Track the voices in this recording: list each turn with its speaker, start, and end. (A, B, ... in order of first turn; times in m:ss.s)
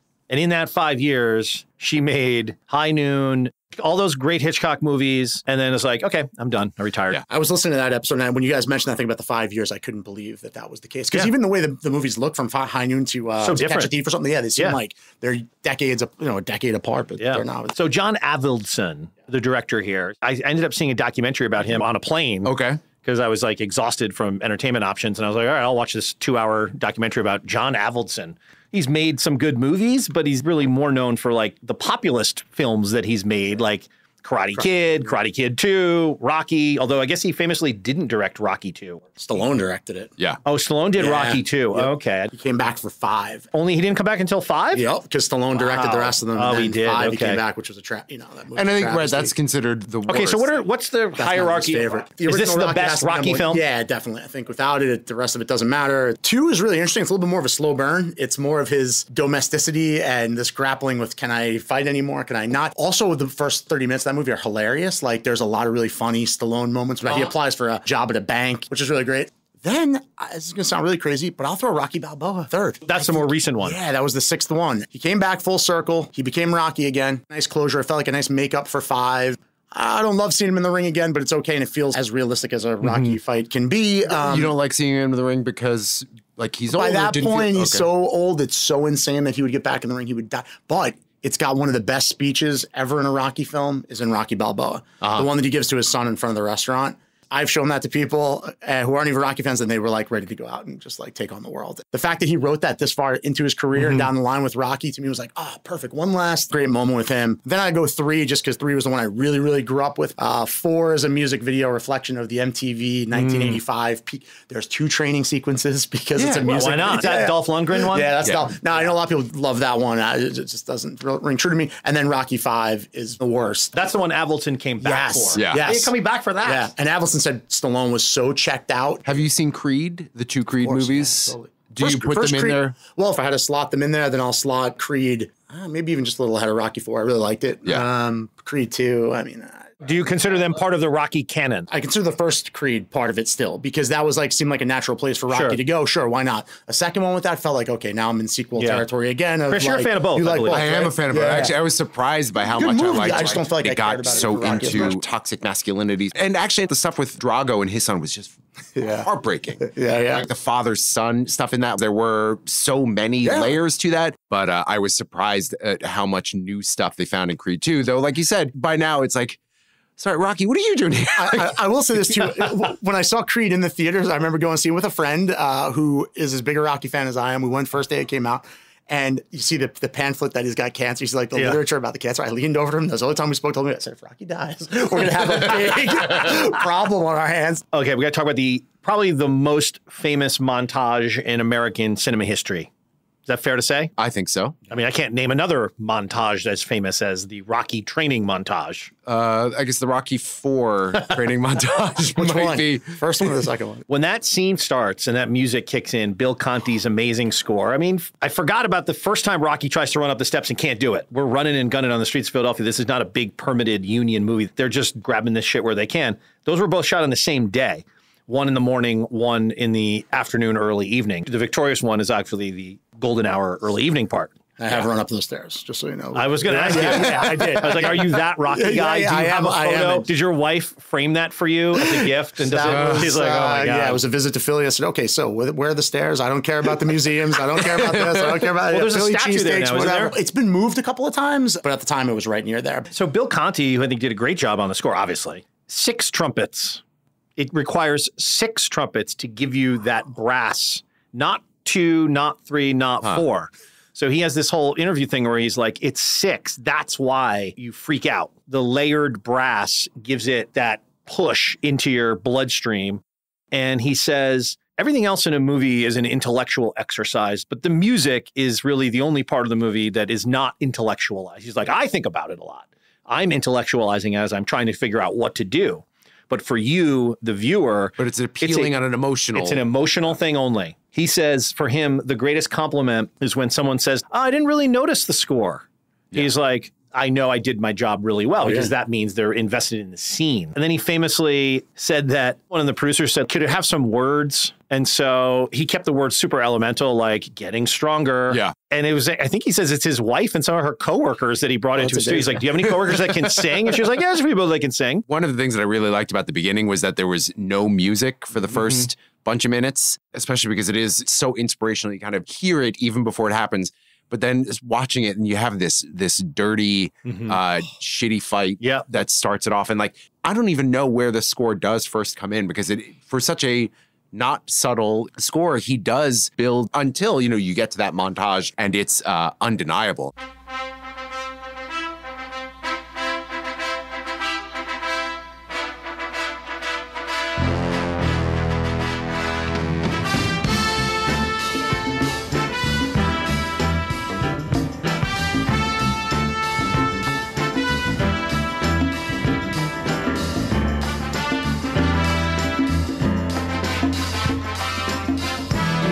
0:00.3-0:07.2 A
0:07.3-0:17.8 B
0:13.4-0:13.9 A
0:17.2-0:39.0 A
0:22.4-0:22.8 C
0:34.6-0:35.1 B
0:39.2-0:40.1 B
0:40.4-0:42.3 A
0:41.0-0:43.5 B
0:43.5-0:44.8 A
0:44.7-0:49.3 B
0:45.6-0:47.4 A
0:48.5-0:50.5 C
0:50.1-0:53.6 A
0:51.2-1:24.5 B
1:12.9-1:13.8 A
1:22.8-1:23.2 A
1:24.2-1:27.8 C
1:26.7-2:03.8 B
1:35.0-1:35.3 C
1:43.8-1:44.1 A
1:53.1-1:53.6 A
1:56.2-1:56.5 C
1:56.4-1:58.1 A
1:58.2-1:58.5 C
2:03.7-2:06.7 A
2:04.8-2:09.0 B
2:05.3-2:05.7 C
2:09.0-2:12.8 C
2:10.6-2:20.0 B
2:19.8-2:21.7 A
2:21.7-2:31.5 B
2:25.3-2:25.6 A
2:28.6-2:28.8 A
2:29.5-2:30.7 A
2:30.5-2:49.4 C
2:32.5-2:35.0 B
2:38.8-2:39.1 B
2:39.6-2:40.2 B
2:43.2-2:43.5 B
2:50.0-2:51.6 C
2:51.2-3:07.6 B
3:01.3-3:01.6 A
3:05.3-3:06.3 C
3:07.7-3:12.7 A
3:13.2-3:13.9 A
3:14.0-3:14.6 C
3:14.7-3:18.9 A
3:19.0-3:23.4 C
3:22.1-3:23.8 B
3:23.9-3:44.8 A
3:44.6-3:50.0 B
3:46.1-3:54.0 A
3:46.8-3:47.5 C
3:51.8-4:02.9 B
3:52.7-3:53.2 C
3:57.6-3:58.5 C
3:58.7-4:00.1 A
4:02.9-4:06.8 A
4:07.4-4:38.7 A
4:38.0-4:39.6 C
4:39.3-5:05.0 A
4:48.4-4:48.7 B
4:58.3-4:58.5 C
5:01.8-5:02.4 B
5:02.8-5:03.9 C
5:05.1-5:30.1 C
5:08.5-5:08.8 A
5:17.0-5:17.4 A